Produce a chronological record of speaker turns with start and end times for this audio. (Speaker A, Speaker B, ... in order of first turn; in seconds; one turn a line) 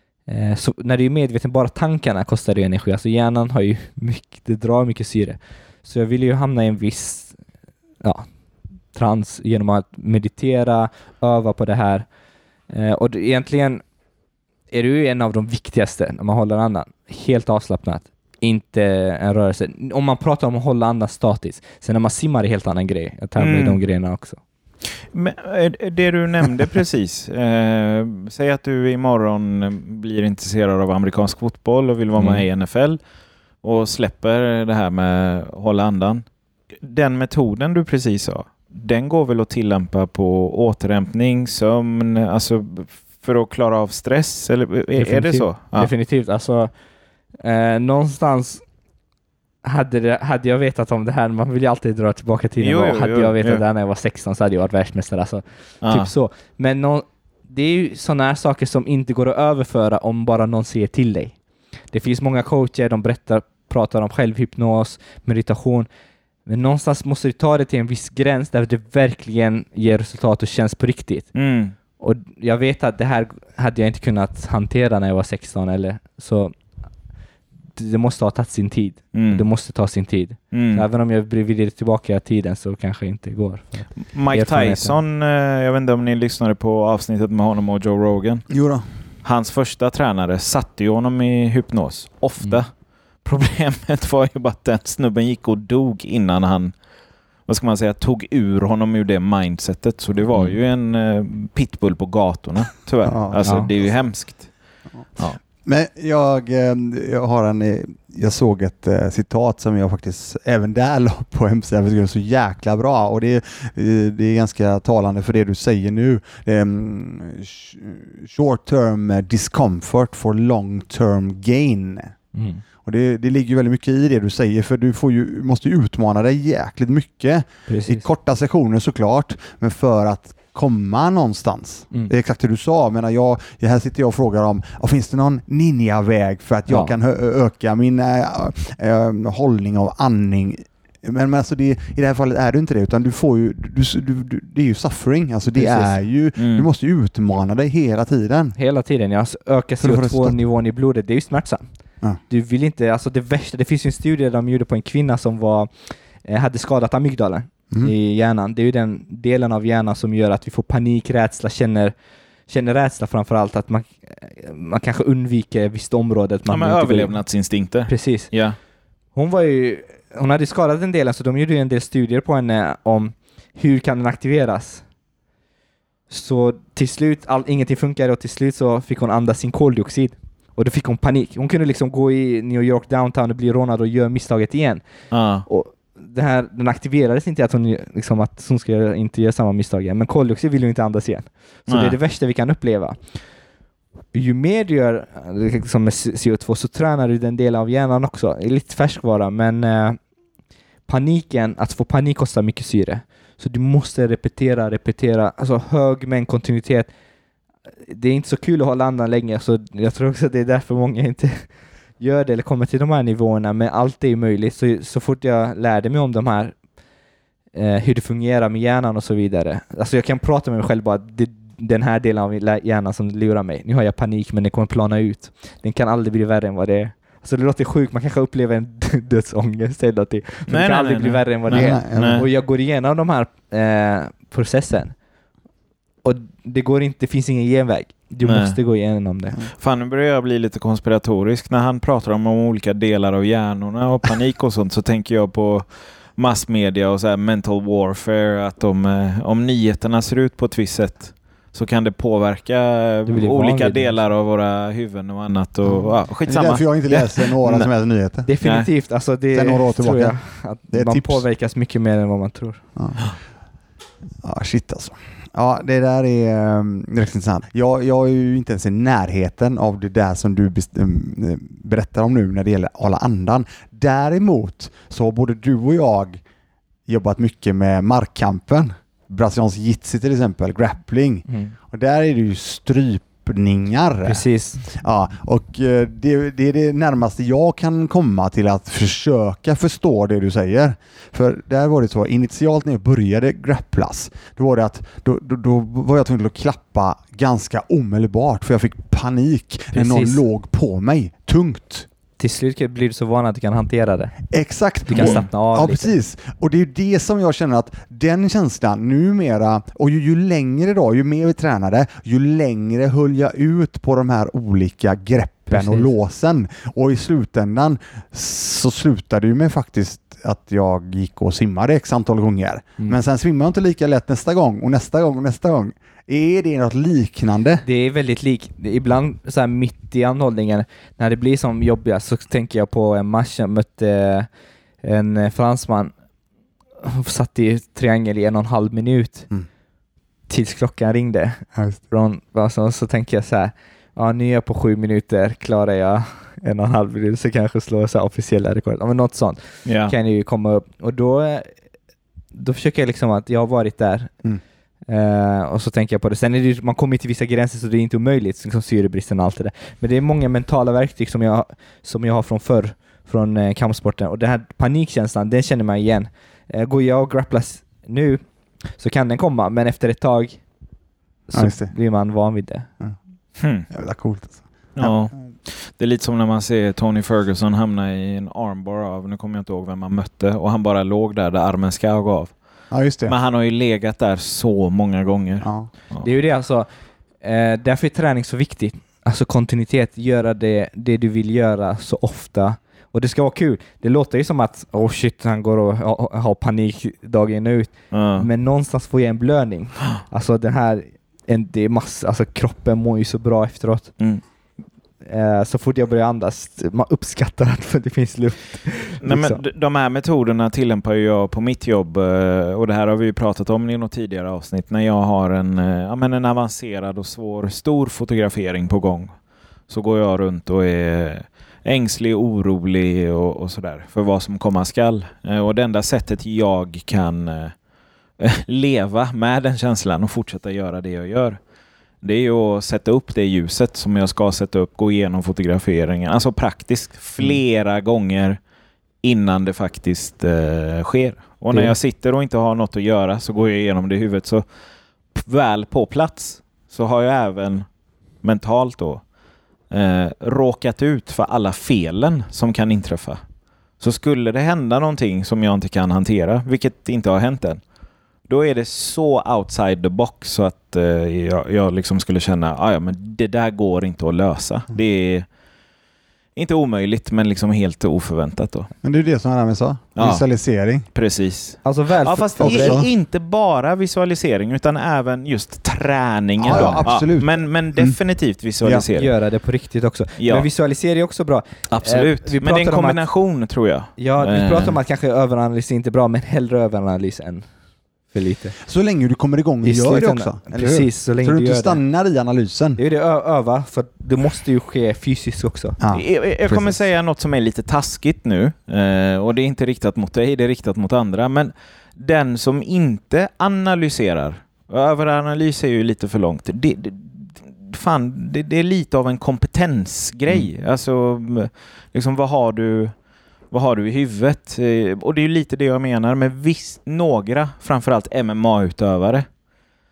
Speaker A: 0.3-7.4
Speaker A: 8.0-8.3
Speaker A: 8.9-12.1
Speaker A: 12.7-13.8
Speaker A: 14.7-24.4
Speaker B: 23.4-23.8
Speaker B: 25.1-33.0
Speaker A: 32.2-32.5
Speaker B: 33.6-36.3
Speaker B: 36.8-45.9
Speaker A: 45.0-46.7
Speaker A: 47.4-48.6
Speaker A: 49.6-61.4
Speaker B: 52.6-53.6
Speaker B: 55.8-56.1
Speaker A: 61.9-65.9
Speaker A: 66.5-71.3
Speaker B: 71.3-71.8
Speaker A: 72.0-76.5
Speaker A: 77.8-85.0
Speaker B: 79.1-79.5
Speaker B: 80.5-80.8
Speaker B: 84.0-88.5
Speaker C: 88.5-88.8
Speaker B: 89.2-96.7
Speaker B: 97.5-104.5
Speaker C: 103.0-103.9
Speaker A: 103.4-103.7
Speaker C: 105.2-122.1
Speaker A: 122.3-122.6
Speaker C: 122.8-148.6
Speaker A: 127.7-128.1
Speaker A: 145.6-146.0
Speaker B: 146.4-146.7
Speaker A: 148.6-151.7
Speaker C: 149.8-150.4
Speaker A: 152.3-161.9
Speaker A: 162.5-167.2
Speaker B: 166.5-168.6
Speaker A: 167.9-168.3
Speaker A: 169.2-174.8
Speaker A: 176.1-184.8
Speaker B: 185.1-185.5
Speaker A: 185.5-193.0
Speaker B: 191.7-192.0
Speaker A: 194.1-200.0
Speaker A: 200.9-206.9
Speaker A: 207.9-216.6
Speaker A: 217.5-235.0
Speaker B: 230.5-232.2
Speaker C: 231.5-232.2
Speaker A: 236.0-239.4
Speaker B: 238.2-238.6
Speaker B: 239.6-257.7
Speaker A: 253.1-254.0
Speaker C: 255.7-258.3
Speaker A: 258.2-262.6
Speaker B: 258.4-258.7
Speaker C: 259.3-261.2
Speaker C: 262.8-263.0
Speaker C: 264.2-276.2
Speaker C: 276.9-301.9
Speaker A: 281.3-281.6
Speaker A: 284.1-284.6
Speaker A: 299.7-300.2
Speaker A: 302.2-304.1
Speaker C: 304.3-327.6
Speaker A: 304.9-305.9
Speaker B: 304.9-305.2
Speaker A: 315.5-315.9
Speaker A: 327.6-334.3
Speaker A: 334.8-335.9
Speaker A: 336.8-339.3
Speaker A: 340.3-351.5
Speaker C: 341.6-341.8
Speaker B: 349.7-349.9
Speaker A: 352.4-354.1
Speaker A: 354.9-368.2
Speaker A: 368.8-370.4
Speaker A: 371.3-372.7
Speaker C: 371.3-371.7
Speaker B: 373.4-373.7
Speaker C: 373.7-375.0
Speaker B: 374.8-382.3
Speaker C: 382.7-383.1
Speaker B: 383.1-386.1
Speaker C: 385.4-385.7
Speaker A: 386.0-386.7
Speaker A: 387.2-403.9
Speaker B: 397.9-398.3
Speaker A: 405.1-409.4
Speaker B: 409.0-419.1
Speaker B: 419.7-427.6
Speaker B: 428.2-431.4
Speaker B: 432.0-438.4
Speaker B: 439.0-444.4
Speaker B: 445.1-447.7
Speaker B: 448.2-449.0
Speaker B: 449.7-453.2
Speaker B: 453.8-457.6
Speaker B: 458.3-465.3
Speaker B: 466.4-468.7
Speaker C: 468.8-470.9
Speaker B: 470.0-470.2
Speaker B: 470.9-479.1
Speaker A: 471.6-472.8
Speaker C: 472.4-472.9
Speaker C: 476.4-478.0
Speaker A: 476.5-476.8
Speaker A: 478.9-483.0
Speaker B: 480.2-480.5
Speaker B: 481.7-484.8
Speaker A: 484.0-487.5
Speaker A: 488.1-488.6
Speaker C: 488.6-492.8
Speaker A: 489.6-491.8
Speaker A: 492.8-495.8
Speaker C: 495.8-496.8
Speaker B: 495.9-512.9
Speaker B: 513.5-519.2